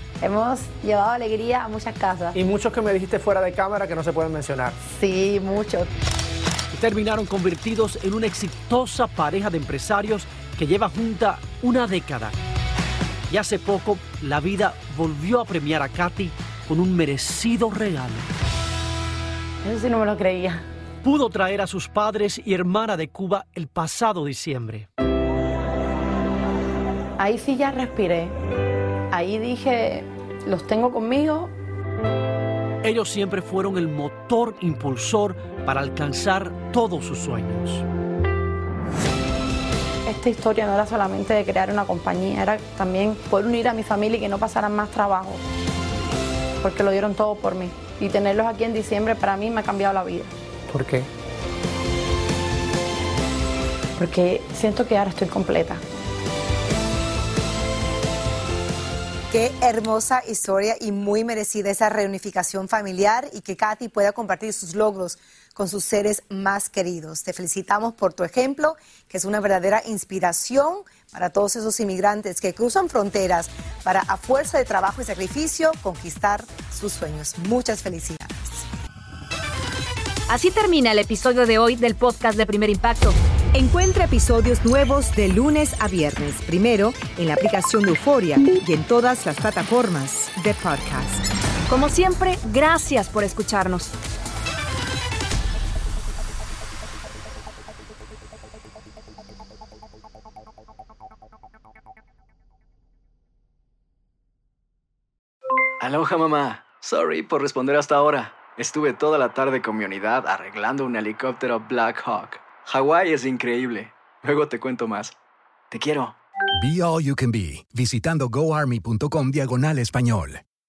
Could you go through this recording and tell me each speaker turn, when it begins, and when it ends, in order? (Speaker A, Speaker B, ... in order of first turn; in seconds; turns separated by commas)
Speaker A: 0.2-2.4, Speaker B: 2.3-4.8, Speaker A: 4.9-5.9, Speaker C: 6.7-12.3, Speaker C: 13.3-18.3, Speaker A: 19.6-20.6, Speaker C: 21.0-24.9, Speaker A: 27.2-28.4, Speaker A: 29.1-31.5, Speaker C: 32.8-37.8, Speaker A: 40.0-45.4, Speaker A: 46.6-50.3, Speaker B: 50.7-51.1, Speaker A: 54.0-55.8, Speaker D: 59.3-78.7, Speaker E: 80.3-83.2, Speaker D: 87.0-88.4, Speaker D: 88.9-90.7, Speaker E: 91.7-93.9, Speaker F: 105.8-115.1, Speaker F: 115.7-116.1, Speaker G: 116.5-120.4